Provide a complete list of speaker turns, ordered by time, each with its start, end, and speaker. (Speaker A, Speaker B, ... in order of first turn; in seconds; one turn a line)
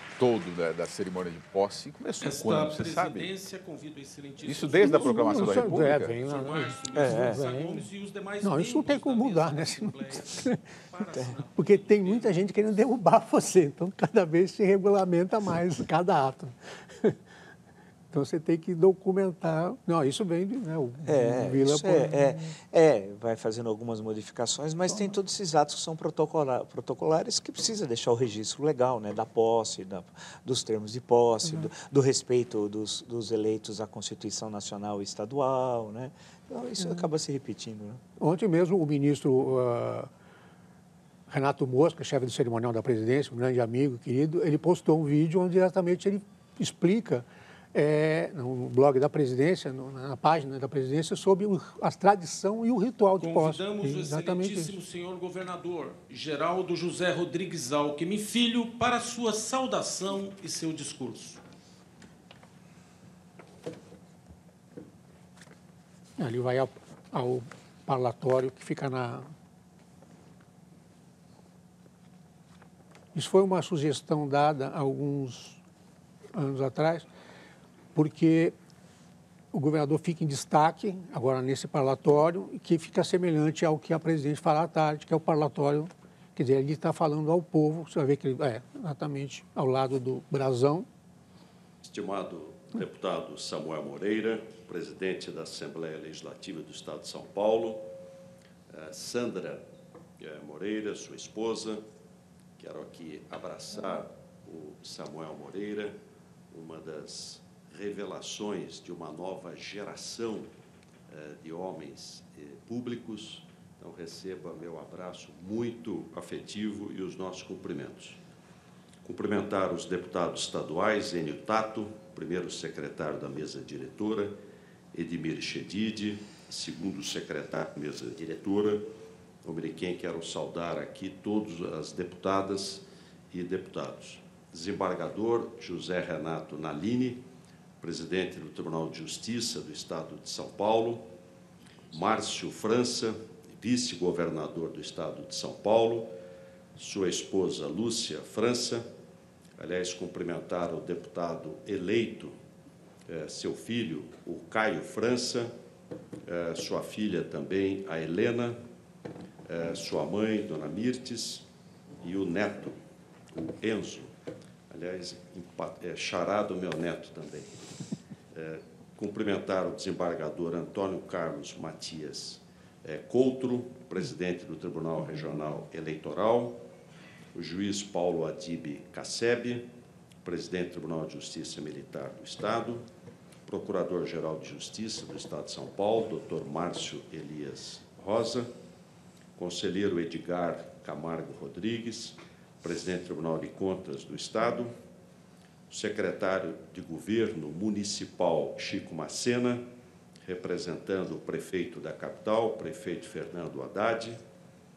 Speaker A: 0.2-3.3
Speaker B: 2.2-12.5
Speaker A: 4.5-6.2
Speaker C: 4.8-7.9
Speaker D: 7.0-7.4
Speaker C: 8.4-10.6
Speaker C: 11.6-17.2
Speaker C: 18.1-22.5
Speaker D: 21.0-38.0
Speaker C: 24.9-25.2
Speaker C: 36.8-37.1
Speaker C: 38.2-40.1
Speaker C: 41.3-54.8
Speaker B: 53.2-61.4
Speaker C: 66.2-69.3
Speaker C: 73.1-75.6
Speaker C: 76.3-77.1
Speaker C: 78.0-78.5
Speaker C: 79.5-90.9
Speaker E: 91.8-97.9
Speaker E: 98.7-99.7
Speaker E: 100.2-101.8
Speaker E: 102.6-106.0
Speaker E: 106.5-110.5
Speaker E: 111.1-118.2
Speaker E: 119.0-124.4
Speaker E: 124.9-137.2
Speaker E: 137.8-141.1
Speaker E: 141.9-146.2
Speaker E: 146.8-148.9
Speaker E: 149.6-152.4
Speaker E: 153.1-155.5
Speaker E: 156.3-158.6
Speaker E: 159.5-161.4
Speaker E: 162.0-162.8
Speaker E: 163.3-164.1
Speaker E: 164.7-167.7
Speaker E: 168.3-176.6
Speaker E: 177.3-179.7
Speaker E: 180.2-182.9
Speaker E: 183.5-188.5
Speaker E: 189.4-194.7
Speaker E: 195.7-199.7
Speaker E: 200.2-204.2